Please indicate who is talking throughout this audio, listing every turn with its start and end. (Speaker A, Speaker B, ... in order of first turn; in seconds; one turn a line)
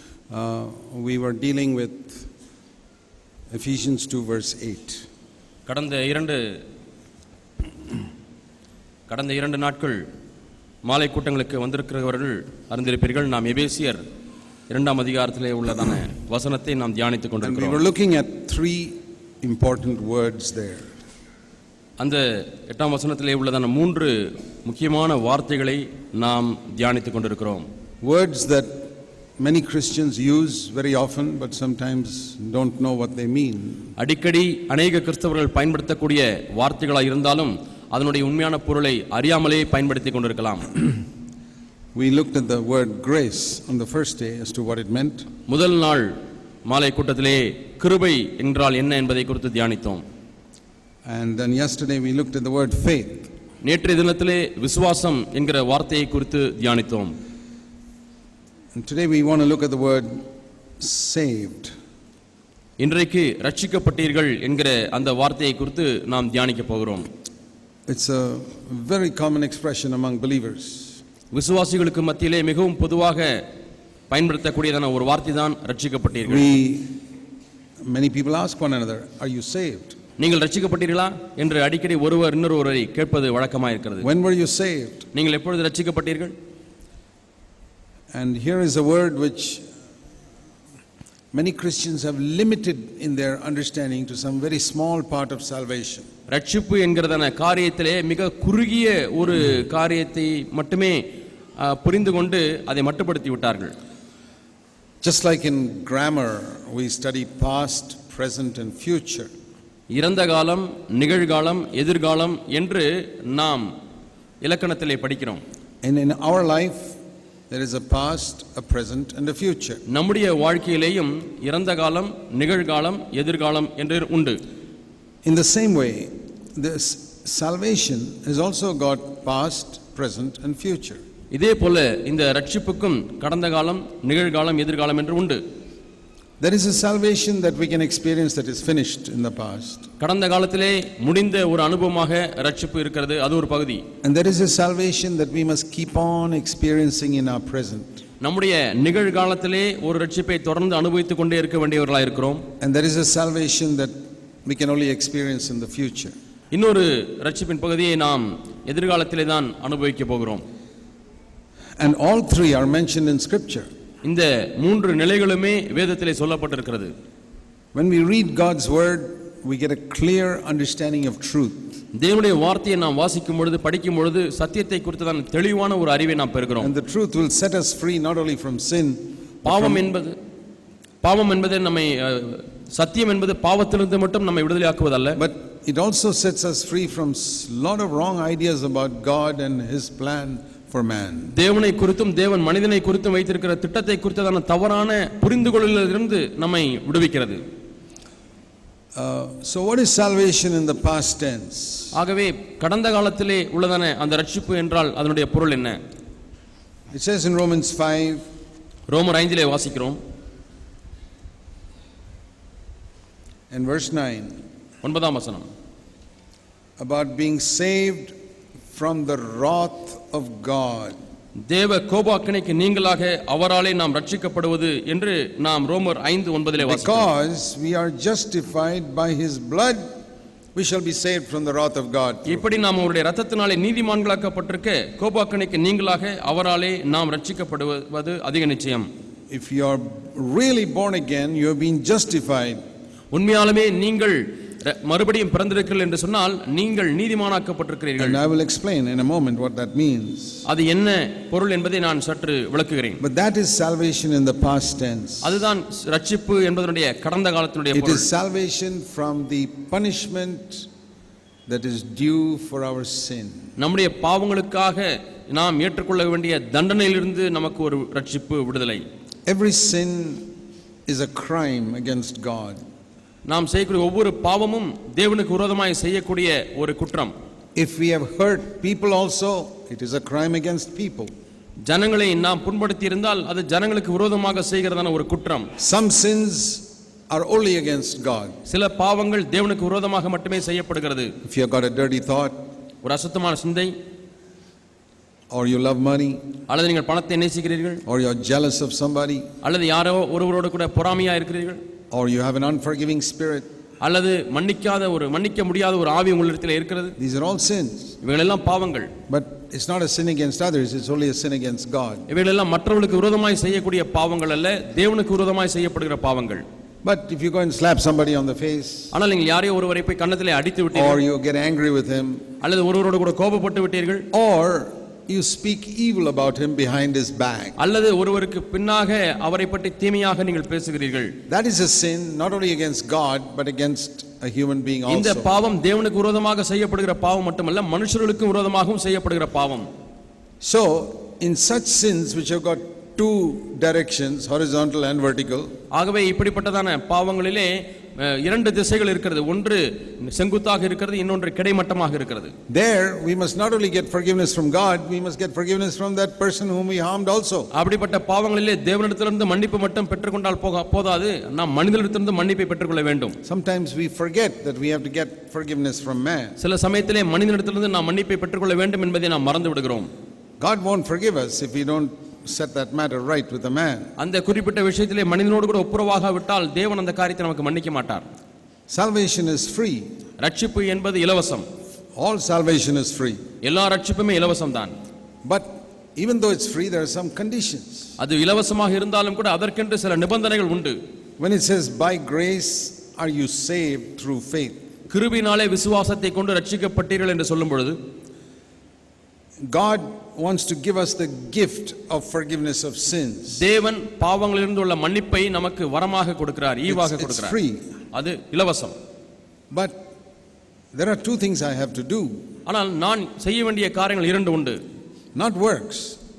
Speaker A: 0.3-2.3
Speaker A: 3.5-5.0
Speaker B: 5.7-6.6
Speaker B: 9.1-10.1
Speaker B: 10.8-14.0
Speaker B: 14.7-17.8
Speaker A: 17.4-20.9
Speaker B: 22.0-27.7
Speaker A: 28.0-28.9
Speaker A: 29.4-33.9
Speaker B: 34.0-40.7
Speaker A: 42.0-45.3
Speaker B: 45.5-46.1
Speaker B: 46.7-50.0
Speaker A: 51.1-53.3
Speaker B: 53.6-57.1
Speaker A: 58.7-60.2
Speaker A: 60.8-61.8
Speaker B: 62.8-67.1
Speaker A: 67.9-71.0
Speaker B: 71.3-73.4
Speaker B: 74.1-76.5
Speaker A: 76.2-77.0
Speaker A: 77.8-80.0
Speaker B: 80.2-84.1
Speaker A: 84.0-85.1
Speaker B: 85.1-86.3
Speaker A: 88.1-89.7
Speaker A: 91.3-96.1
Speaker B: 96.3-101.0
Speaker B: 101.6-103.7
Speaker A: 105.0-109.3
Speaker B: 109.9-113.7
Speaker B: 114.4-115.4
Speaker A: 115.8-116.9
Speaker A: 117.5-119.8
Speaker B: 119.9-124.4
Speaker A: 125.2-131.0
Speaker B: 131.3-135.4
Speaker A: 136.4-139.9
Speaker B: 140.0-143.8
Speaker A: 144.0-148.0
Speaker B: 148.2-152.4
Speaker A: 152.6-156.2
Speaker B: 156.5-160.4
Speaker A: 161.8-163.7
Speaker B: 164.0-166.9
Speaker A: 167.7-171.8
Speaker B: 171.9-176.7
Speaker A: 176.6-179.8
Speaker B: 179.4-180.2
Speaker B: 181.0-185.2
Speaker A: 185.2-191.3
Speaker B: 191.3-197.4
Speaker A: 198.9-201.9
Speaker B: 201.9-205.8
Speaker A: 206.9-208.2
Speaker B: 208.9-210.0
Speaker A: 213.5-214.4
Speaker B: 214.8-215.5
Speaker A: 216.8-218.1
Speaker A: 218.7-221.0
Speaker B: 221.5-227.1
Speaker A: 226.6-229.8
Speaker A: 230.6-232.5
Speaker B: 232.3-238.9
Speaker A: 239.3-242.6
Speaker B: 243.1-248.2
Speaker A: 248.0-250.5
Speaker B: 250.5-253.0
Speaker A: 253.0-255.4
Speaker B: 255.2-258.1
Speaker A: 257.7-260.7
Speaker A: 261.5-263.5
Speaker B: 263.6-268.8
Speaker A: 269.3-270.3
Speaker A: 270.9-272.6
Speaker B: 273.3-277.1
Speaker A: 277.6-281.1
Speaker B: 281.6-285.5
Speaker A: 285.6-288.4
Speaker B: 288.5-291.1
Speaker A: 291.2-292.4
Speaker B: 292.8-293.7
Speaker A: 295.3-296.2
Speaker B: 296.5-297.8
Speaker A: 297.9-299.3
Speaker B: 299.4-301.6
Speaker A: 301.9-303.5
Speaker B: 303.8-307.0
Speaker A: 307.0-307.9
Speaker B: 308.0-308.9
Speaker A: 309.1-312.1
Speaker B: 312.1-316.4
Speaker A: 316.8-318.9
Speaker B: 318.9-321.0
Speaker A: 320.7-322.2
Speaker B: 322.4-324.1
Speaker A: 324.1-327.6
Speaker B: 327.6-331.2
Speaker A: 331.3-335.4
Speaker B: 334.9-339.7
Speaker A: 340.4-345.5
Speaker B: 345.7-352.3
Speaker A: 352.5-357.5
Speaker B: 357.5-363.2
Speaker A: 363.2-366.4
Speaker B: 366.4-369.9
Speaker A: 370.4-373.9
Speaker B: 374.0-378.0
Speaker A: 378.7-379.9
Speaker B: 380.2-381.4
Speaker A: 382.0-383.2
Speaker B: 383.4-384.8
Speaker A: 385.2-387.9
Speaker B: 388.0-390.8
Speaker A: 391.2-394.6
Speaker B: 394.9-397.8
Speaker A: 399.5-403.4
Speaker B: 403.4-407.4
Speaker A: 406.7-407.7
Speaker B: 407.9-408.8
Speaker A: 409.5-409.8
Speaker A: 410.7-412.2
Speaker B: 412.5-414.6
Speaker A: 415.1-416.0